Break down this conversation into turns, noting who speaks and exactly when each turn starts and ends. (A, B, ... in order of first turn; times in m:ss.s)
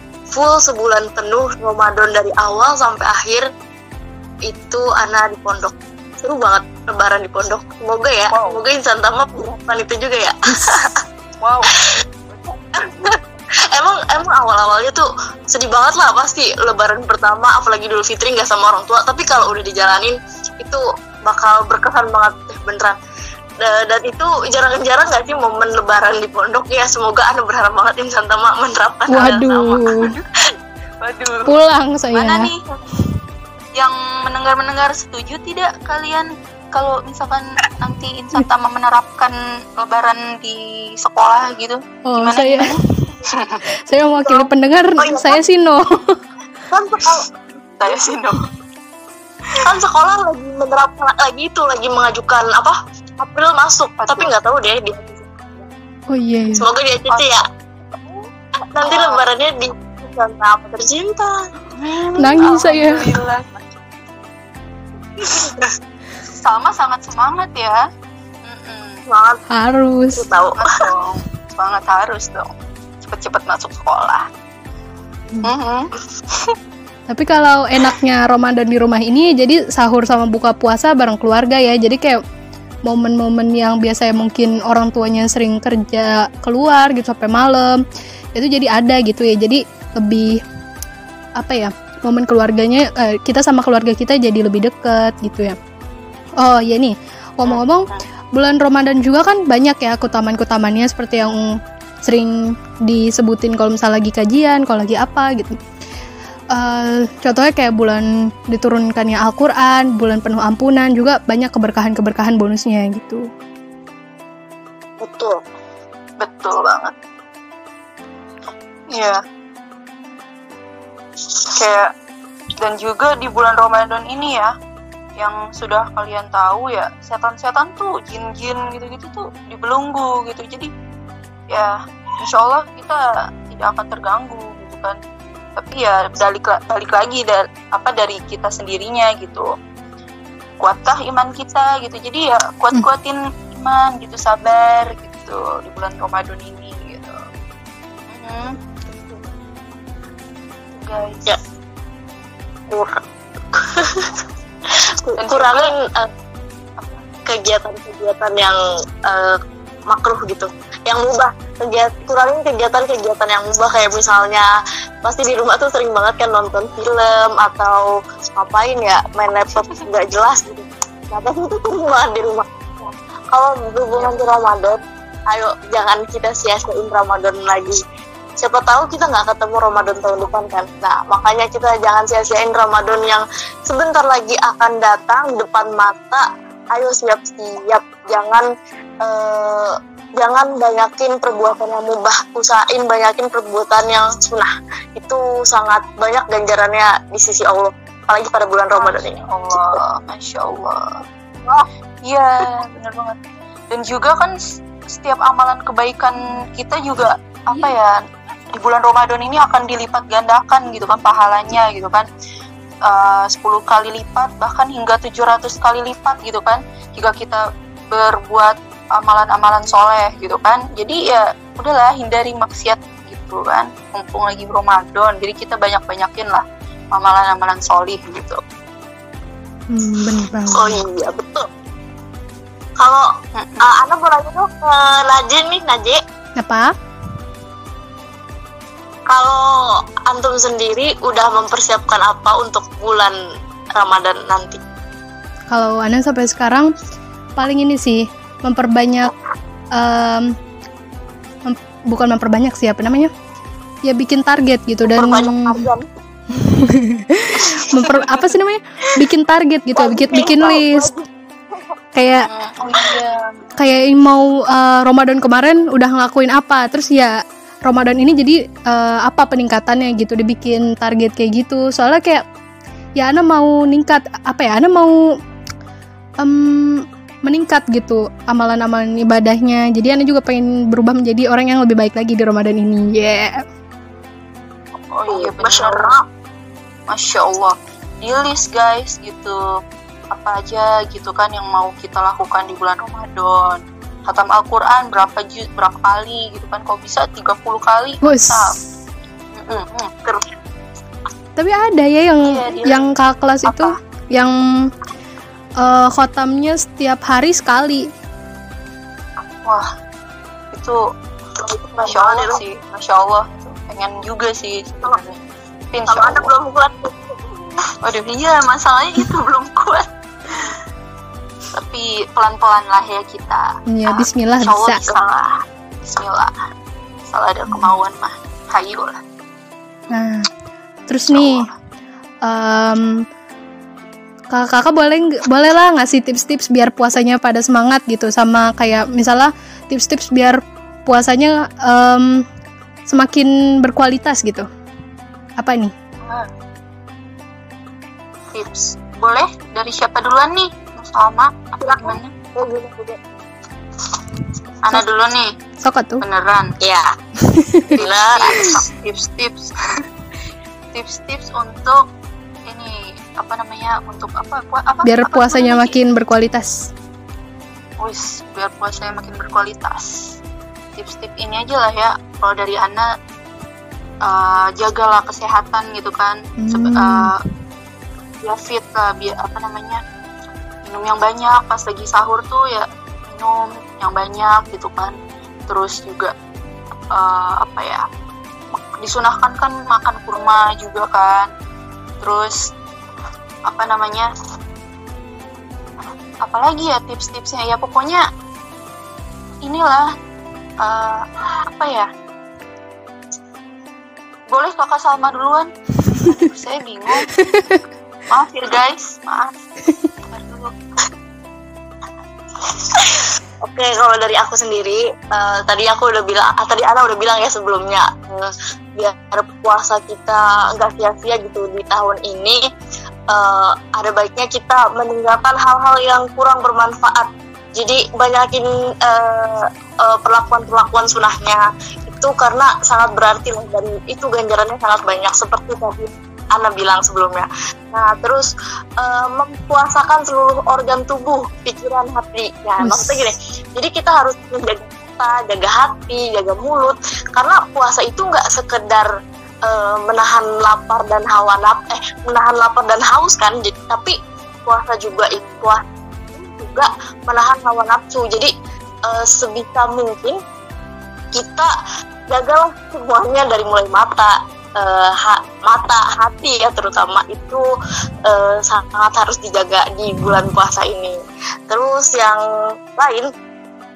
0:00.3-0:03.5 A
0:04.4-0:11.0 A
0:08.3-0:08.6 B
0:11.4-0:11.8 B
0:12.4-0:13.2 A
0:13.7-0:23.0 A
0:23.6-0:29.7 A
0:29.1-0:30.1 C
0:29.2-0:30.2 B
0:31.0-0:31.5 B
0:31.5-0:32.5 C
0:32.1-0:32.8 B
0:33.8-0:42.8 B
0:42.1-0:43.1 C
0:43.3-0:43.6 B
0:43.9-0:46.2 C
0:44.2-0:45.4 A
0:46.7-0:47.3 A
0:47.8-0:48.5 B
0:49.6-0:55.7 A
0:54.0-0:54.3 B
0:56.1-0:56.7 C
0:56.6-0:57.4 A
0:57.1-0:57.4 B
0:58.0-0:58.3 B
0:58.7-1:01.3 A
0:58.8-0:59.3 B
1:01.8-1:03.6 B
1:02.2-1:03.0 C
1:05.2-1:05.7 A
1:06.4-1:07.8 B
1:08.4-1:09.0 B
1:09.1-1:09.4 A
1:09.5-1:10.2 C
1:10.1-1:10.7 A
1:10.6-1:12.5 B
1:13.0-1:14.3 B
1:15.4-1:16.6 B
1:17.1-1:22.2 C
1:22.9-1:27.8 C
1:28.4-1:30.3 C
1:31.4-1:35.6 C
1:36.4-1:41.4 C
1:37.4-1:38.0 B
1:42.1-1:42.3 C
1:42.9-1:45.5 C
1:46.6-1:53.2 C
1:55.0-1:55.4 A
1:56.2-1:56.9 B
1:58.9-1:59.2 B
2:01.5-2:01.9 B
2:02.6-2:04.5 B
2:05.2-2:10.7 B
2:11.5-2:15.0 B
2:15.6-2:19.5 B
2:20.6-2:27.2 B
2:28.1-2:28.6 B
2:30.8-2:31.3 B
2:32.7-2:33.0 A
2:33.5-2:34.1 A
2:35.0-2:36.1 A
2:35.2-2:35.7 B
2:36.8-2:37.0 B
2:37.3-2:39.4 A
2:39.9-2:44.5 A
2:45.0-2:57.8 A
2:53.9-2:54.3 B
2:58.4-3:08.5 A
3:09.0-3:19.8 A
3:18.8-3:20.9 B
3:22.1-3:23.2 B
3:23.7-3:24.4 B
3:24.9-3:28.0 B
3:28.5-3:32.1 B
3:32.9-3:48.4 B
3:49.7-3:50.8 C
3:50.5-3:51.5 A
3:52.8-3:53.1 A
3:53.4-3:53.7 B
3:53.6-3:56.0 A
3:56.4-3:56.7 C
3:59.1-4:03.2 A
4:03.8-4:04.6 A
4:05.5-4:06.7 C
4:07.4-4:09.1 C
4:09.8-4:10.3 C
4:11.5-4:13.1 C
4:13.9-4:15.7 C
4:14.9-4:15.9 A
4:16.3-4:20.9 C
4:19.8-4:21.1 A
4:22.0-4:22.3 C
4:22.3-4:23.4 B
4:23.6-4:27.1 C
4:27.7-4:32.2 C
4:33.0-4:34.9 C
4:36.2-4:43.4 C
4:44.9-4:45.9 B
4:45.1-4:46.0 A
4:46.9-4:49.4 B
4:50.1-4:58.6 B
4:58.0-4:58.6 C
4:59.3-4:59.9 B
5:00.0-5:00.3 A
5:01.4-5:04.4 C
5:02.2-5:02.9 B
5:03.4-5:03.8 B
5:05.6-5:07.8 C
5:10.5-5:10.8 B
5:11.4-5:12.4 A
5:11.8-5:15.2 B
5:15.7-5:16.3 B
5:15.9-5:17.5 A
5:17.8-5:20.5 B
5:21.5-5:26.3 B
5:23.7-5:24.8 C
5:27.1-5:29.0 B
5:27.5-5:27.8 C
5:29.9-5:30.3 C
5:30.9-5:31.5 C
5:31.1-5:31.5 B
5:32.3-5:32.9 C
5:34.3-5:42.2 C
5:42.9-5:44.5 C
5:45.4-5:45.7 C
5:46.0-5:46.3 B
5:48.3-5:52.1 B
5:51.6-5:53.0 A
5:54.6-5:55.3 B
5:55.6-5:56.0 C
5:56.0-5:56.5 B
5:56.6-5:56.9 A
5:57.3-5:57.7 C
5:57.7-5:59.8 B
5:57.8-5:58.5 A
6:00.7-6:01.8 B
6:02.5-6:05.8 B
6:04.8-6:06.7 C
6:07.8-6:10.0 B
6:10.8-6:12.9 B
6:14.1-6:17.2 B
6:16.4-6:17.1 C
6:18.2-6:19.8 B
6:20.7-6:25.0 B
6:25.5-6:26.1 B
6:27.0-6:27.8 B
6:28.8-6:31.3 B
6:32.0-6:32.4 B
6:33.5-6:34.1 B
6:36.2-6:38.0 B
6:39.4-6:39.8 B
6:40.6-6:41.9 B
6:44.3-6:47.2 B
6:47.1-6:47.6 C
6:48.1-6:49.4 B
6:50.1-6:50.5 B
6:52.7-7:02.4 A
7:03.1-7:18.3 A
7:18.8-7:28.9 A
7:22.6-7:23.1 C
7:29.5-7:35.6 A
7:34.9-7:35.5 B
7:36.1-7:38.3 A
7:38.9-7:40.2 A
7:41.1-7:41.5 A
7:42.1-7:47.4 A
7:48.1-7:51.0 A
7:51.5-7:52.2 A
7:52.8-7:53.1 A